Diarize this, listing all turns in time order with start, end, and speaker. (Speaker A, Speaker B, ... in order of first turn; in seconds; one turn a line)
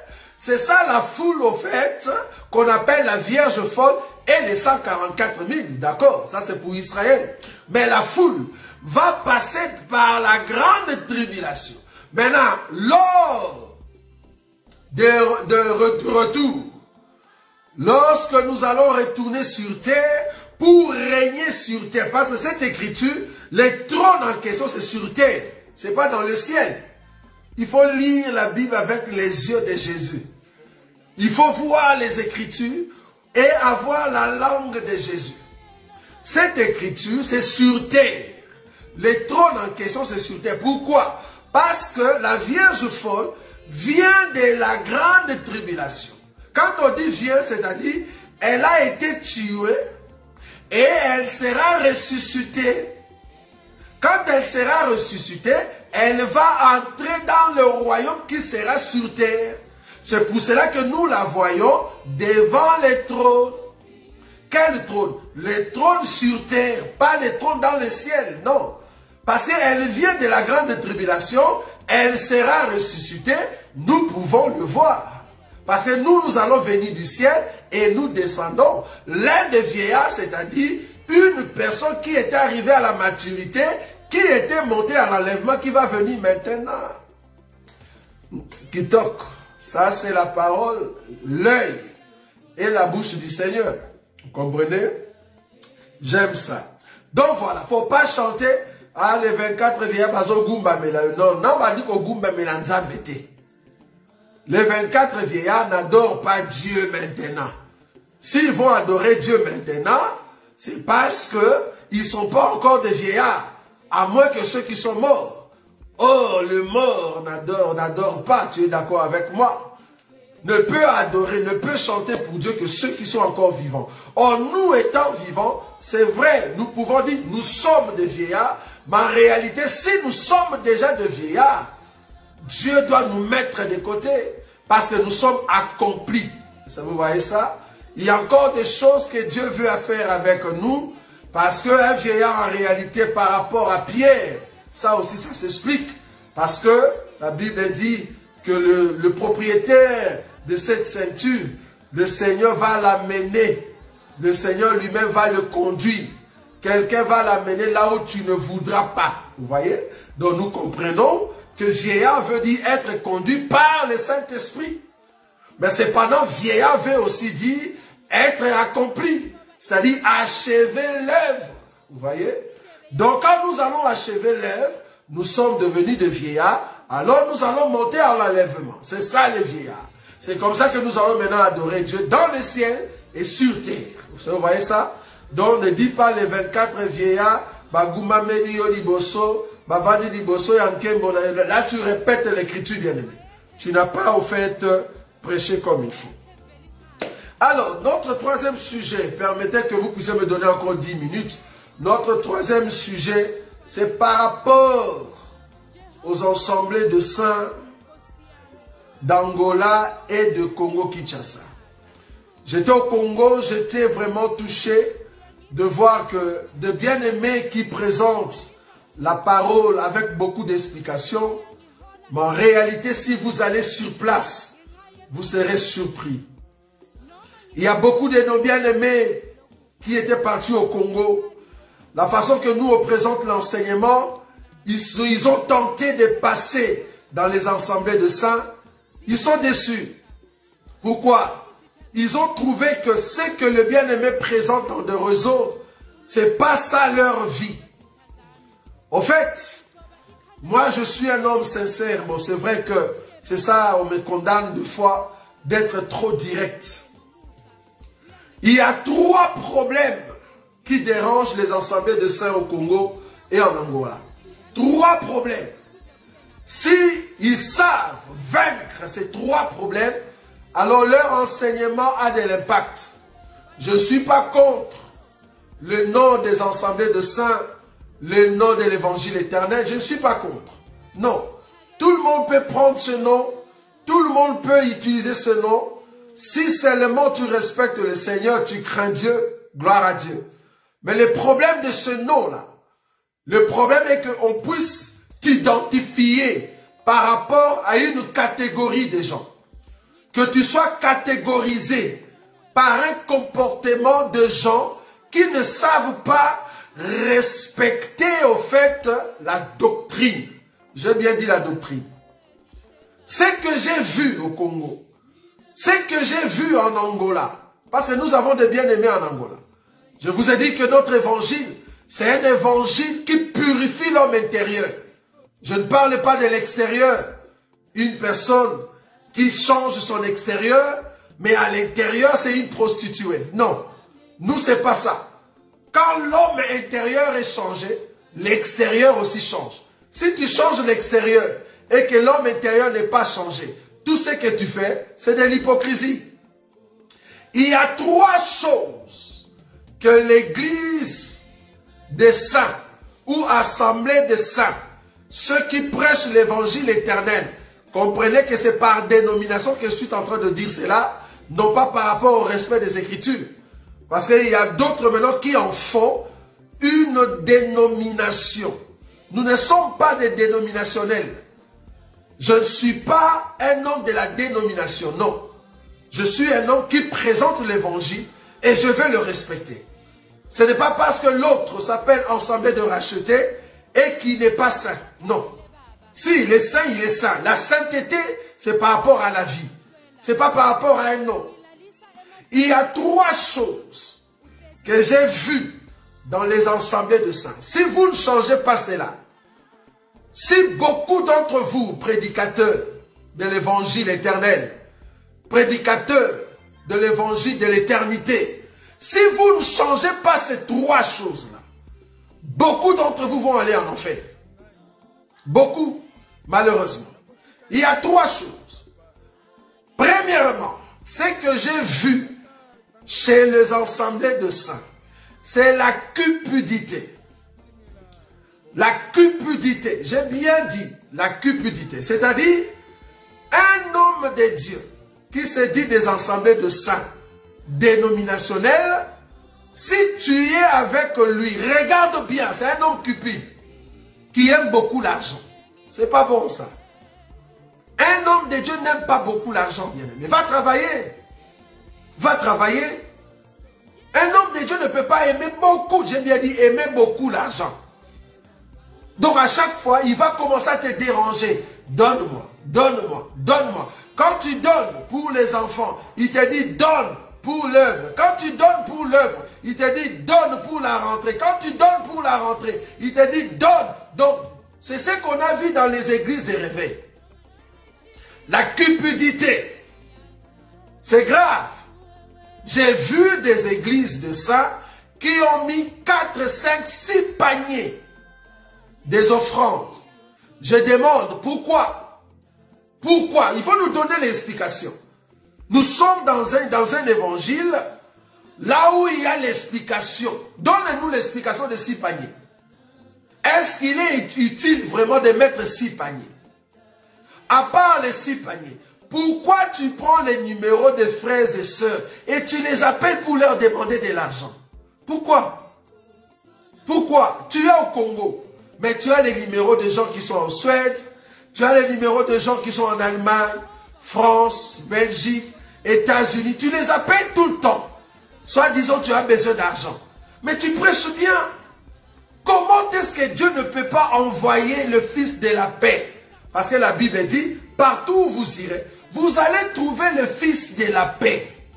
Speaker A: 0.4-13.8
Speaker A: 14.9-16.8
Speaker A: 17.8-26.8
Speaker A: 27.6-30.2
Speaker A: 31.2-35.4
Speaker A: 36.2-38.4
Speaker A: 39.0-49.8
Speaker A: 50.7-52.9
Speaker A: 54.0-63.6
Speaker A: 64.5-86.9
Speaker A: 88.3-91.9
Speaker A: 92.6-94.9
Speaker A: 96.0-103.3
Speaker A: 104.5-107.5
Speaker A: 108.2-115.5
Speaker A: 116.0-119.7
Speaker A: 120.4-131.7
Speaker A: 132.4-153.7
Speaker A: 154.2-164.8
Speaker A: 165.6-172.4
Speaker A: 172.9-196.2
Speaker A: 197.4-205.1
Speaker A: 206.0-207.5
Speaker A: 209.0-211.5
Speaker A: 212.4-215.0
Speaker A: 215.5-221.4
Speaker A: 222.1-224.6
Speaker A: 225.1-226.3
Speaker A: 227.6-229.3
Speaker A: 229.8-231.3
Speaker A: 231.9-238.4
Speaker A: 239.1-239.9
Speaker A: 240.8-247.6
Speaker A: 248.9-249.6
Speaker A: 250.4-256.9
Speaker A: 258.4-260.1
Speaker A: 260.6-264.0
Speaker A: 264.5-265.5
Speaker A: 266.5-270.0
Speaker A: 270.5-272.9
Speaker A: 273.6-274.9
Speaker A: 275.6-277.4
Speaker A: 278.0-290.2
Speaker A: 290.8-292.5
Speaker A: 293.3-299.3
Speaker A: 300.1-302.0
Speaker A: 302.5-311.9
Speaker A: 313.1-314.8
Speaker A: 315.5-319.4
Speaker A: 320.0-324.8
Speaker A: 325.4-327.1
Speaker A: 327.7-333.6
Speaker A: 334.2-335.0
Speaker A: 335.7-346.1
Speaker A: 347.3-349.2
Speaker A: 349.8-351.2
Speaker A: 351.9-352.5
Speaker A: 353.1-354.6
Speaker A: 355.1-363.3
Speaker A: 363.9-366.1
Speaker A: 366.6-368.6
Speaker A: 369.1-371.2
Speaker A: 372.2-375.2
Speaker A: 375.9-379.6
Speaker A: 380.3-385.3
Speaker A: 385.9-391.3
Speaker A: 392.3-394.0
Speaker A: 394.6-399.0
Speaker A: 400.1-404.5
Speaker A: 405.3-411.4
Speaker A: 412.2-414.1
Speaker A: 415.3-416.9
Speaker A: 417.5-418.7
Speaker A: 419.8-422.1
Speaker A: 422.9-424.6
Speaker A: 425.2-426.9
Speaker A: 428.5-432.4
Speaker A: 433.3-436.9
Speaker A: 437.5-438.8
Speaker A: 439.5-443.3
Speaker A: 444.1-446.5
Speaker A: 447.8-450.9
Speaker A: 452.0-452.8
Speaker A: 453.9-457.6
Speaker A: 459.0-476.8
Speaker A: 478.3-479.6
Speaker A: 480.8-481.7
Speaker A: 482.4-487.8
Speaker A: 488.9-489.8
Speaker A: 490.4-492.0
Speaker A: 492.8-494.8
Speaker A: 495.5-497.6
Speaker A: 498.4-502.1
Speaker A: 503.2-506.1
Speaker A: 507.3-515.5
Speaker A: 516.7-527.7
Speaker A: 528.2-531.3
Speaker A: 532.2-541.3